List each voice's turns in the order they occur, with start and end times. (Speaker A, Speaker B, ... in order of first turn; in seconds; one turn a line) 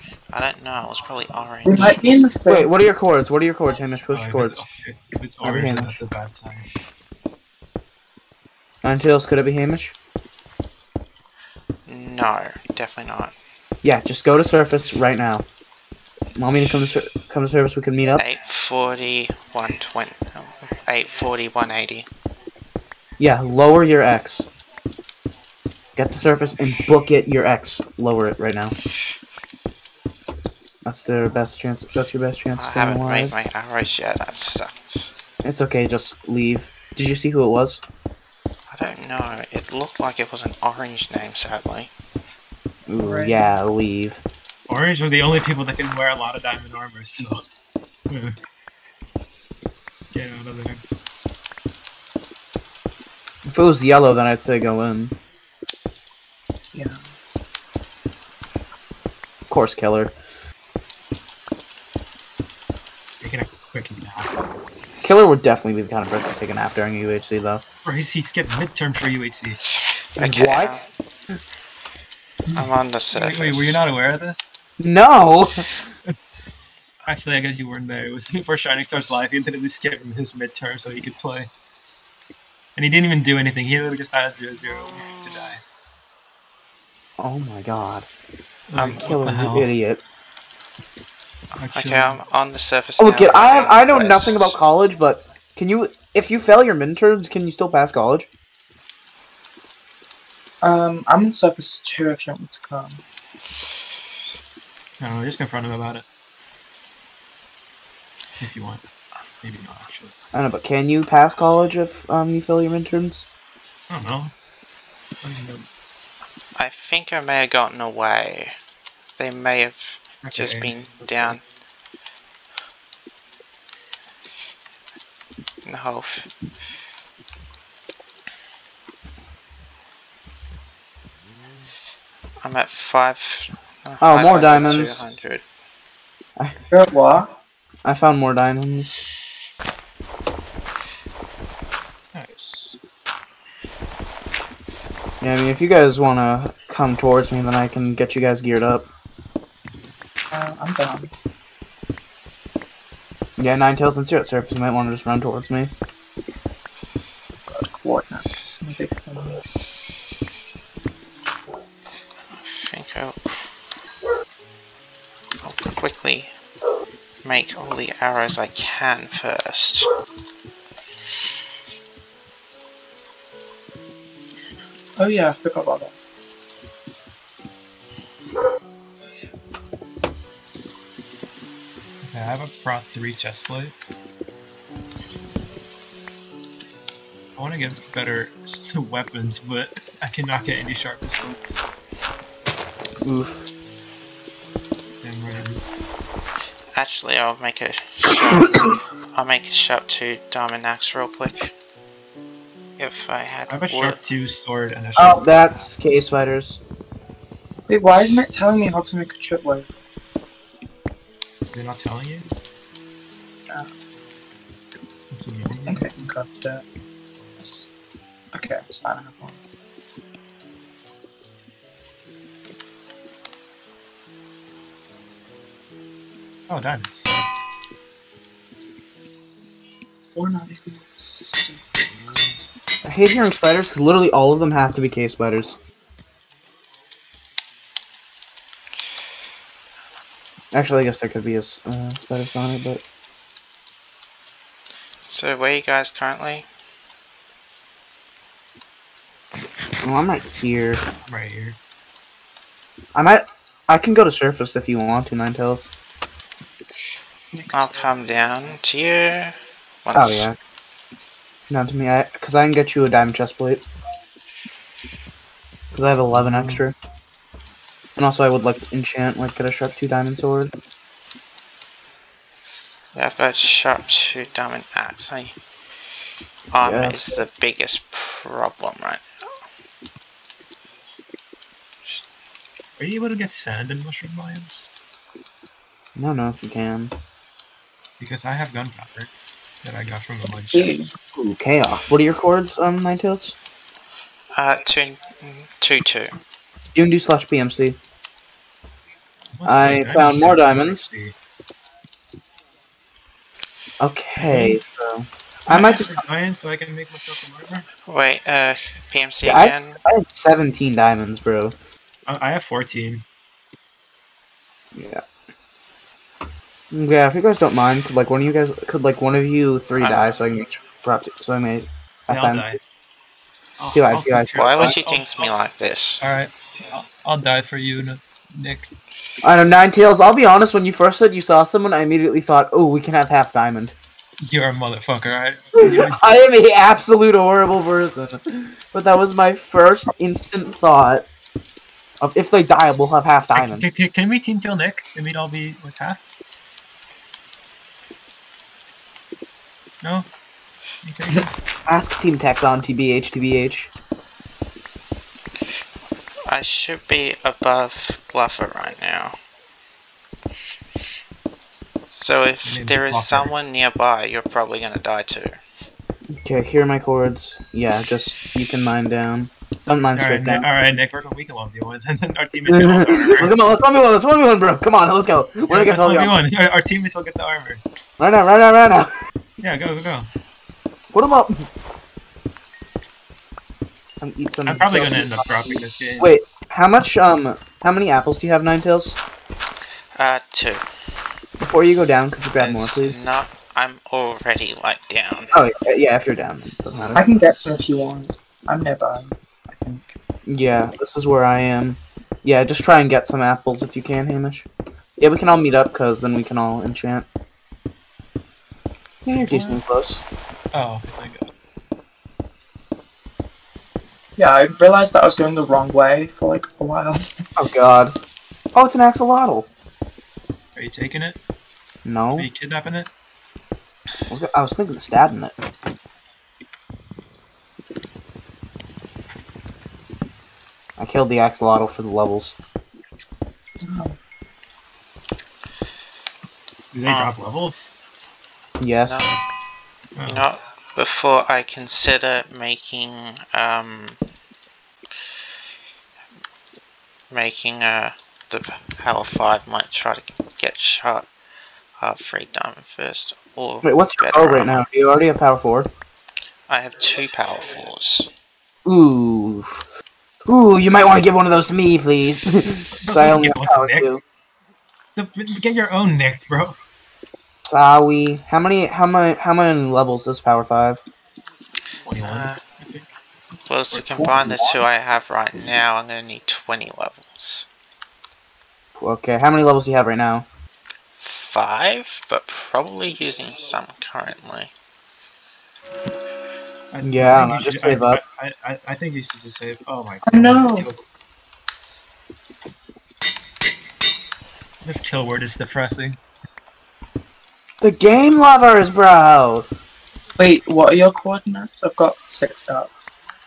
Speaker A: 0.3-2.1
Speaker B: 1.6-2.7
Speaker C: 2.5-4.6
Speaker D: 4.1-6.7
Speaker C: 5.4-6.0
Speaker C: 8.8-9.9
Speaker A: 11.9-13.3
Speaker C: 13.8-15.4
Speaker C: 16.4-18.2
Speaker A: 18.2-22.1
Speaker C: 23.2-24.5
Speaker C: 26.0-28.8
Speaker C: 30.9-33.4
Speaker A: 32.5-35.1
Speaker C: 35.4-37.8
Speaker A: 38.7-41.9
Speaker C: 42.9-44.2
Speaker B: 43.0-43.5
Speaker D: 44.7-47.4
Speaker D: 48.1-48.4
Speaker D: 50.1-50.8
Speaker C: 53.5-55.1
Speaker C: 59.5-60.1
Speaker D: 63.2-64.4
Speaker C: 65.0-67.6
Speaker D: 67.8-69.6
Speaker A: 70.2-70.9
Speaker C: 70.2-70.9
Speaker D: 72.5-74.5
Speaker A: 72.5-73.8
Speaker C: 74.8-75.7
Speaker D: 77.0-81.5
Speaker D: 82.8-85.6
Speaker C: 87.2-88.1
Speaker D: 88.7-89.7
Speaker C: 88.9-90.0
Speaker D: 91.6-92.2
Speaker A: 91.7-94.6
Speaker C: 93.0-98.3
Speaker B: 100.6-103.0
Speaker D: 105.0-106.0
Speaker D: 108.4-108.8
Speaker D: 109.4-110.1
Speaker C: 110.3-113.3
Speaker D: 113.9-114.3
Speaker D: 115.2-115.7
Speaker A: 116.5-118.6
Speaker A: 119.2-121.4
Speaker D: 120.2-121.4
Speaker A: 125.6-126.3
Speaker A: 132.4-135.4
Speaker C: 134.0-135.2
Speaker B: 136.7-137.3
Speaker C: 137.8-139.1
Speaker D: 142.1-142.8
Speaker C: 145.2-148.9
Speaker B: 150.3-151.1
Speaker C: 153.4-155.7
Speaker B: 157.5-159.4
Speaker A: 162.3-163.5
Speaker A: 165.4-166.3
Speaker A: 167.2-169.9
Speaker B: 175.0-175.9
Speaker D: 182.0-183.7
Speaker D: 187.4-191.6
Speaker C: 193.0-193.5
Speaker D: 195.0-195.6
Speaker A: 196.7-201.5
Speaker A: 202.8-204.0
Speaker D: 203.5-205.7
Speaker C: 205.0-206.6
Speaker B: 207.7-209.7
Speaker D: 211.5-212.3
Speaker D: 215.1-215.9
Speaker B: 215.7-216.7
Speaker B: 217.4-217.7
Speaker B: 218.3-219.4
Speaker D: 226.5-227.1
Speaker B: 230.2-231.6
Speaker C: 232.8-235.6
Speaker C: 240.5-242.8
Speaker A: 245.0-246.5
Speaker C: 249.8-250.8
Speaker D: 251.1-251.6
Speaker C: 252.9-255.7
Speaker B: 257.3-257.7
Speaker A: 257.5-260.3
Speaker C: 259.9-260.4
Speaker C: 261.5-263.6
Speaker C: 265.7-266.8
Speaker D: 266.1-266.6
Speaker C: 268.0-270.5
Speaker A: 272.9-275.4
Speaker A: 276.5-279.0
Speaker C: 276.6-277.2
Speaker D: 282.8-284.7
Speaker C: 286.0-286.9
Speaker D: 288.0-289.1
Speaker D: 289.6-290.8
Speaker B: 290.5-290.9
Speaker C: 291.1-293.4
Speaker A: 294.3-296.1
Speaker C: 296.8-297.8
Speaker D: 299.4-301.1
Speaker C: 299.4-300.9
Speaker C: 303.8-306.0
Speaker D: 304.2-304.6
Speaker D: 305.5-307.7
Speaker A: 307.9-309.8
Speaker C: 309.2-311.6
Speaker D: 312.1-313.1
Speaker C: 314.7-315.0
Speaker C: 316.7-322.6
Speaker A: 319.8-320.2
Speaker D: 322.1-322.6
Speaker D: 323.6-325.3
Speaker C: 323.7-324.8
Speaker A: 324.4-326.0
Speaker D: 326.0-328.7
Speaker C: 329.2-333.8
Speaker D: 334.2-336.2
Speaker C: 335.6-341.1
Speaker C: 342.0-343.6
Speaker D: 343.3-346.0
Speaker D: 349.8-350.1
Speaker D: 350.8-351.4
Speaker C: 351.7-353.7
Speaker A: 356.3-359.2
Speaker A: 361.9-365.3
Speaker D: 362.4-363.4
Speaker C: 366.2-370.5
Speaker D: 369.9-373.3
Speaker C: 372.5-376.2
Speaker D: 375.5-377.6
Speaker C: 378.0-378.9
Speaker D: 379.4-380.1
Speaker C: 380.9-381.5
Speaker C: 384.0-389.0
Speaker D: 384.5-386.1
Speaker A: 389.9-390.7
Speaker C: 391.4-393.0
Speaker A: 392.4-395.4
Speaker C: 395.3-397.1
Speaker B: 396.9-399.9
Speaker C: 400.3-404.5
Speaker C: 405.0-407.1
Speaker C: 409.1-410.0
Speaker D: 409.1-409.6
Speaker D: 410.5-411.3
Speaker B: 414.2-417.0
Speaker C: 417.4-418.0
Speaker C: 418.5-419.5
Speaker D: 420.6-421.2
Speaker C: 421.9-422.3
Speaker D: 422.1-422.9
Speaker C: 424.1-425.3
Speaker C: 430.8-432.4
Speaker B: 433.6-434.0
Speaker D: 436.7-437.6
Speaker A: 436.9-437.1
Speaker C: 438.6-439.0
Speaker A: 438.9-439.1
Speaker D: 440.0-440.3
Speaker A: 440.1-444.0
Speaker A: 447.1-451.1
Speaker A: 451.8-454.6
Speaker C: 453.6-455.7
Speaker A: 456.5-458.1
Speaker C: 458.6-459.6
Speaker C: 460.3-464.0
Speaker D: 462.8-463.9
Speaker D: 465.0-466.6
Speaker C: 467.5-470.8
Speaker D: 471.8-472.9
Speaker A: 472.0-472.4
Speaker A: 473.5-477.5
Speaker D: 473.7-474.1
Speaker C: 473.9-474.6
Speaker C: 478.8-480.3
Speaker A: 481.0-484.5
Speaker D: 486.7-490.9
Speaker C: 486.8-488.0
Speaker B: 490.1-490.7
Speaker D: 494.6-496.0
Speaker C: 497.6-499.5
Speaker B: 500.2-502.9